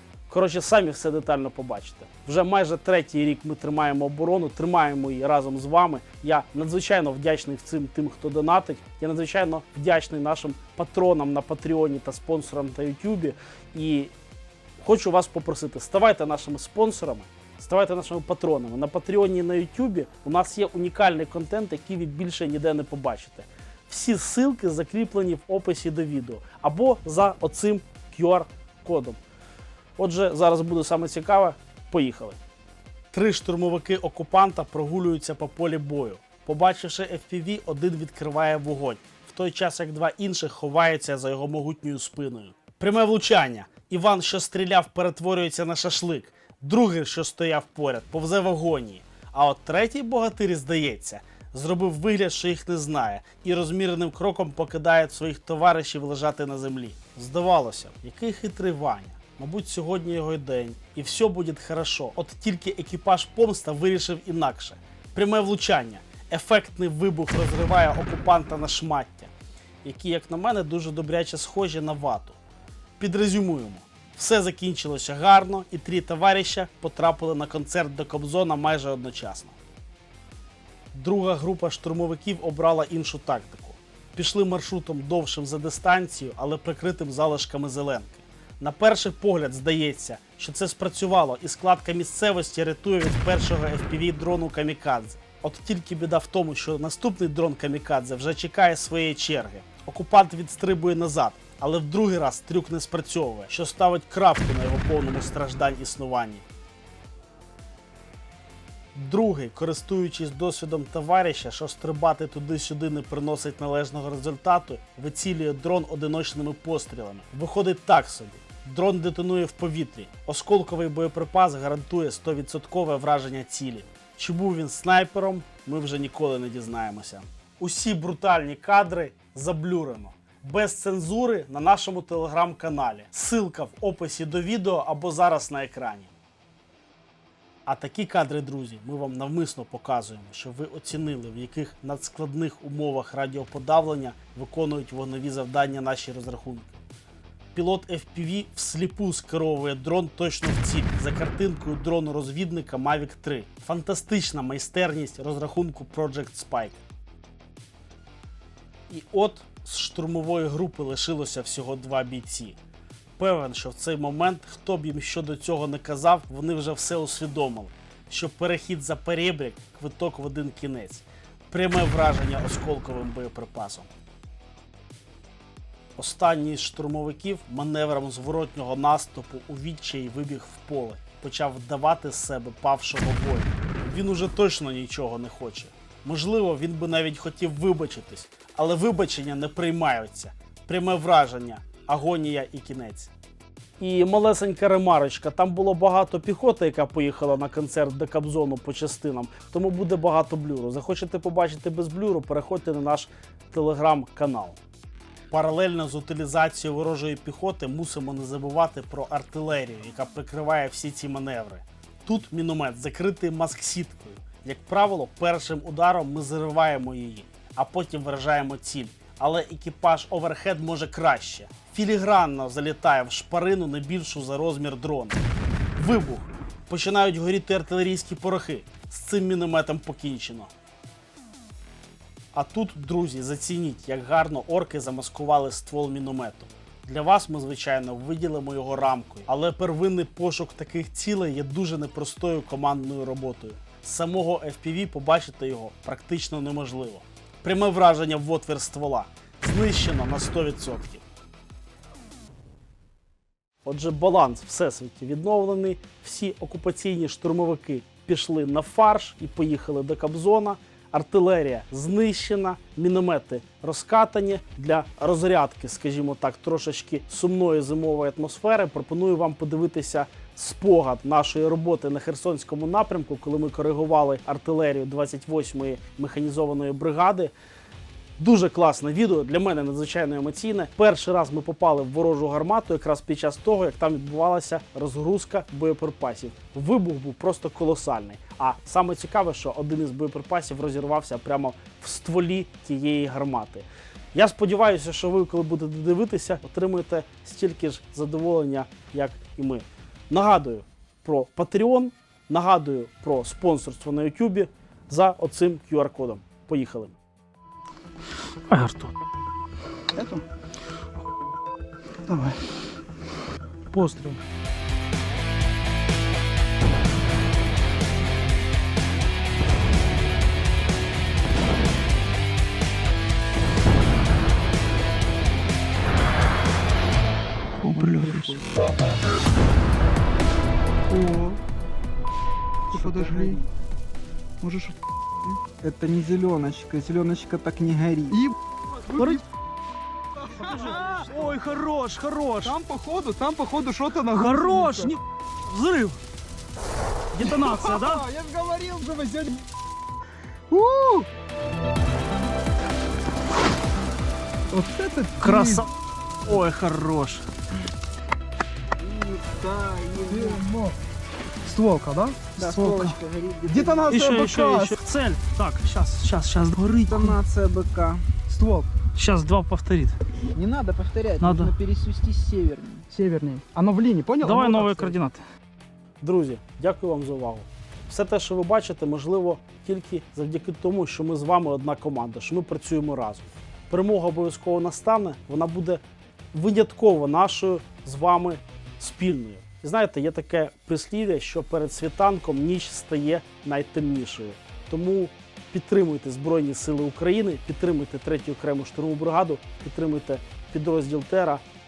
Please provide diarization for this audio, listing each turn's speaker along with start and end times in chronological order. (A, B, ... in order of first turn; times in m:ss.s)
0:00.3-0:14.1 A
0:14.8-0:29.2 A
0:30.0-0:32.4 A
0:33.1-1:09.3 A
1:09.8-1:12.4 A
1:13.0-1:19.6 A
1:20.9-1:46.4 A
1:48.9-2:16.1 A
2:17.6-2:26.7 A
2:27.5-2:36.8 A
2:38.9-2:42.6 A
2:43.2-2:53.9 A
2:56.0-3:13.1 A
3:13.8-3:24.6 A
3:25.3-3:45.2 A
3:45.8-3:50.5 A
3:52.3-4:11.0 A
4:13.6-4:37.3 A
4:38.2-5:07.0 A
5:08.5-5:08.9 A
5:09.9-5:10.2 B
5:12.0-5:12.4 B
5:13.7-5:14.2 A
5:27.6-5:28.5 B
5:30.9-5:31.4 B
5:32.7-5:33.4 B
5:32.7-5:33.4 C
5:34.4-5:35.4 B
5:35.6-5:38.2 C
5:38.1-5:39.2 B
5:38.9-5:39.2 A
5:40.2-5:41.4 B
5:40.3-5:42.6 A
5:42.4-5:44.9 B
5:44.1-5:46.0 A
5:47.1-5:48.0 A
5:47.2-5:49.4 B
5:50.5-5:51.1 B
5:54.5-5:55.6 B
5:55.2-5:55.7 A
5:56.2-5:57.2 A
5:58.8-6:00.4 C
6:00.1-6:00.8 B
6:01.4-6:04.8 B
6:02.4-6:03.9 C
6:03.9-6:07.2 A
6:06.9-6:08.0 C
6:08.3-6:08.7 B
6:08.9-6:10.0 A
6:10.3-6:12.9 C
6:11.2-6:11.5 A
6:12.9-6:15.0 B
6:14.2-6:15.2 A
6:16.0-6:25.8 A
6:26.3-6:41.4 A